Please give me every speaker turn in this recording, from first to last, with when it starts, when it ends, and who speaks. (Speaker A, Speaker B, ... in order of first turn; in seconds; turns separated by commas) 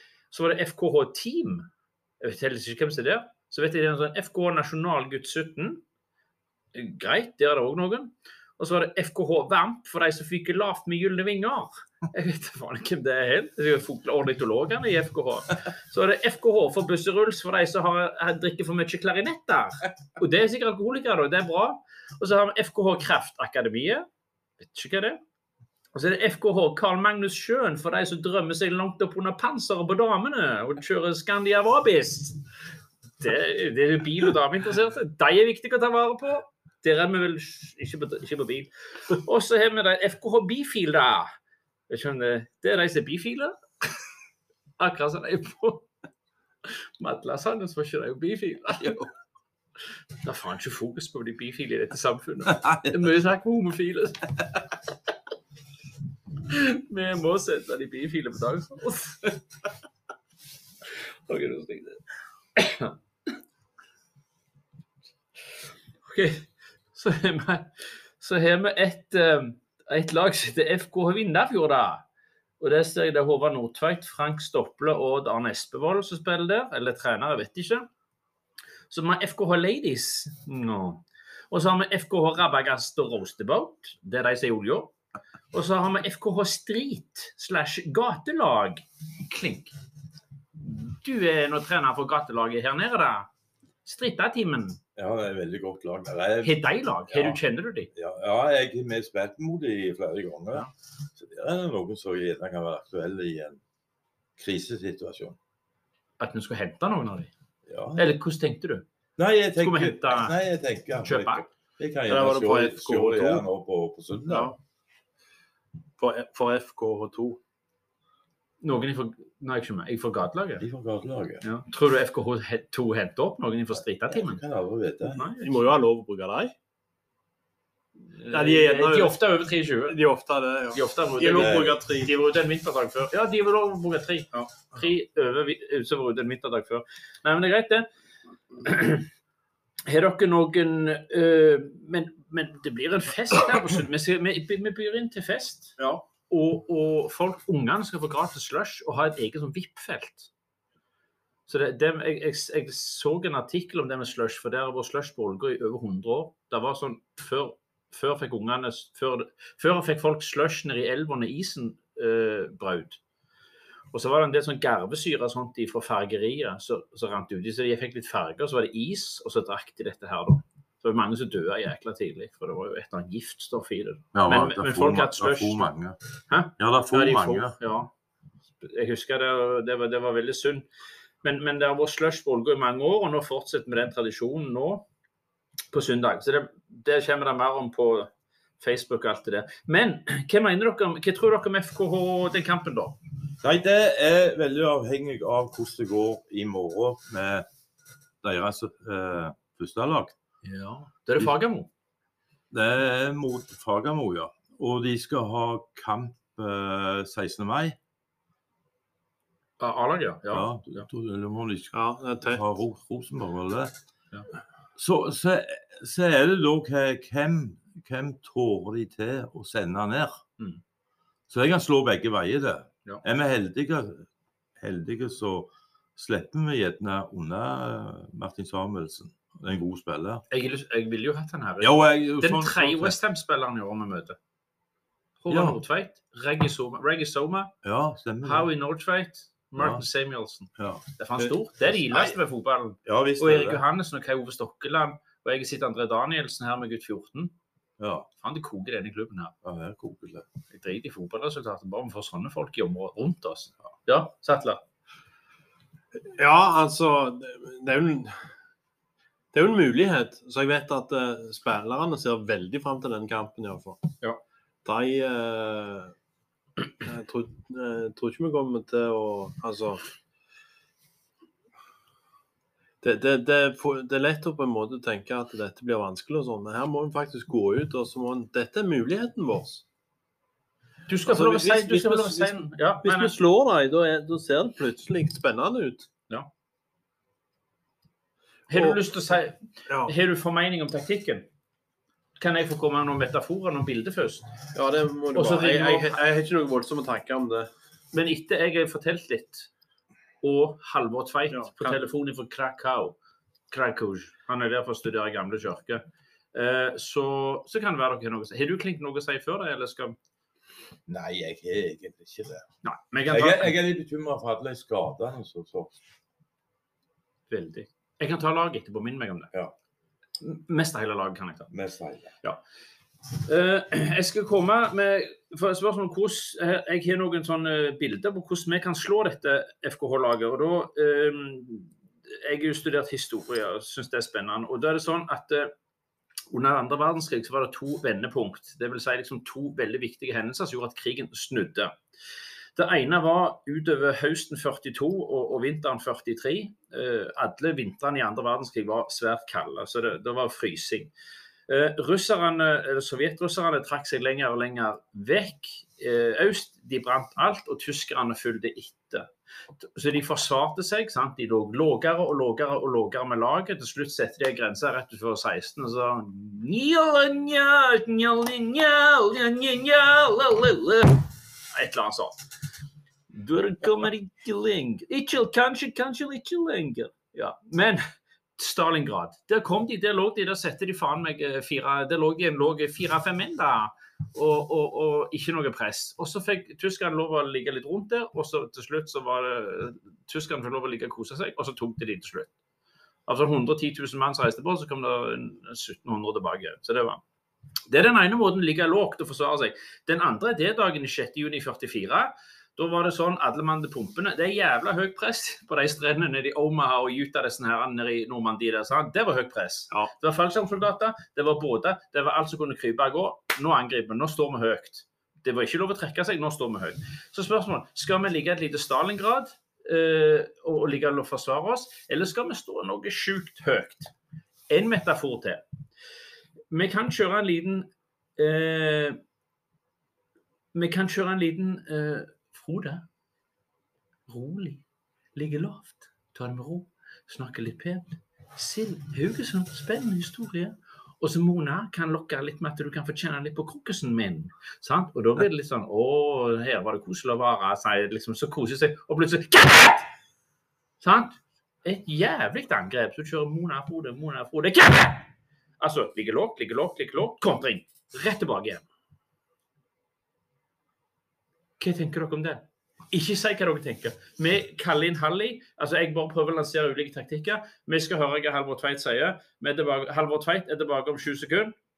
Speaker A: 0.3-1.7, Speaker A: 2.2-5.8, Speaker A: 6.7-24.1, Speaker A: 24.6-25.2, Speaker A: 25.9-32.5, Speaker A: 33.2-41.3, Speaker A: 41.9-43.9, Speaker A: 44.8-45.9, Speaker A: 46.6-49.1, Speaker A: 50.2-54.5, Speaker B: 52.5-52.9, Speaker A: 56.5-59.4, Speaker A: 61.0-62.0, Speaker A: 62.5-63.0, Speaker A: 66.0-72.0, Speaker A: 72.6-77.9, Speaker A: 78.9-84.9, Speaker A: 85.5-89.7, Speaker A: 90.6-93.3, Speaker A: 93.8-94.8, Speaker B: 95.0-97.4, Speaker A: 96.4-97.9, Speaker B: 97.9-103.6, Speaker B: 104.4-105.4, Speaker A: 106.2-107.3, Speaker B: 107.7-108.1, Speaker A: 108.0-108.8, Speaker B: 109.2-114.5, Speaker A: 109.6-110.4, Speaker A: 111.0-111.4, Speaker C: 112.1-113.5, Speaker C: 114.3-114.5, Speaker C: 116.0-117.4, Speaker A: 118.6-120.6, Speaker B: 120.6-121.4, Speaker A: 121.4-124.4, Speaker B: 123.7-125.2, Speaker A: 125.0-125.4, Speaker C: 125.4-126.5, Speaker A: 128.1-130.0, Speaker C: 128.3-129.2, Speaker C: 129.9-132.1, Speaker A: 130.7-137.9, Speaker B: 131.3-131.8, Speaker A: 138.6-139.1, Speaker A: 139.8-150.3, Speaker C: 145.8-146.0, Speaker A: 151.5-163.0, Speaker A: 163.9-175.7, Speaker B: 174.1-176.0, Speaker A: 176.3-177.9, Speaker B: 176.6-177.6, Speaker A: 178.6-180.7, Speaker A: 181.2-184.8, Speaker A: 185.7-193.0, Speaker B: 193.4-197.5, Speaker B: 198.2-200.1, Speaker A: 200.4-201.7, Speaker B: 202.5-207.8, Speaker A: 209.6-210.9, Speaker B: 210.3-213.7, Speaker C: 211.7-212.4, Speaker B: 214.8-220.2, Speaker B: 221.3-230.2, Speaker A: 230.3-234.2, Speaker B: 231.6-232.9, Speaker A: 235.2-237.5, Speaker B: 235.3-235.6, Speaker B: 237.6-238.5, Speaker A: 238.2-247.3, Speaker B: 239.6-239.8, Speaker B: 240.6-240.8, Speaker B: 241.8-242.2, Speaker B: 242.8-243.6, Speaker B: 247.8-248.1, Speaker A: 248.2-249.3, Speaker B: 249.4-250.2, Speaker A: 250.5-254.6, Speaker C: 256.1-258.3, Speaker C: 259.3-263.9, Speaker C: 264.6-265.9, Speaker C: 266.8-269.8, Speaker C: 272.8-279.6, Speaker A: 280.9-283.1, Speaker C: 281.1-285.9, Speaker A: 288.5-291.3, Speaker C: 288.5-288.8, Speaker C: 289.7-289.9, Speaker A: 292.2-294.3, Speaker C: 294.5-297.5, Speaker A: 295.1-296.0, Speaker A: 297.9-299.5, Speaker A: 300.2-303.0, Speaker C: 301.3-301.8, Speaker A: 303.5-309.9, Speaker B: 310.9-312.5, Speaker A: 312.6-313.5, Speaker B: 313.1-315.8, Speaker A: 317.3-319.3, Speaker A: 320.2-321.5, Speaker B: 321.5-322.1, Speaker A: 323.2-335.5, Speaker A: 336.3-341.8, Speaker A: 342.6-350.9, Speaker A: 351.5-372.2, Speaker A: 373.1-377.9, Speaker A: 378.4-392.3, Speaker A: 393.1-397.0, Speaker A: 397.7-423.9, Speaker A: 424.5-425.4, Speaker A: 426.5-429.0, Speaker A: 430.5-432.8, Speaker A: 434.1-434.6, Speaker A: 435.1-449.9, Speaker A: 450.8-458.6, Speaker A: 461.6-471.5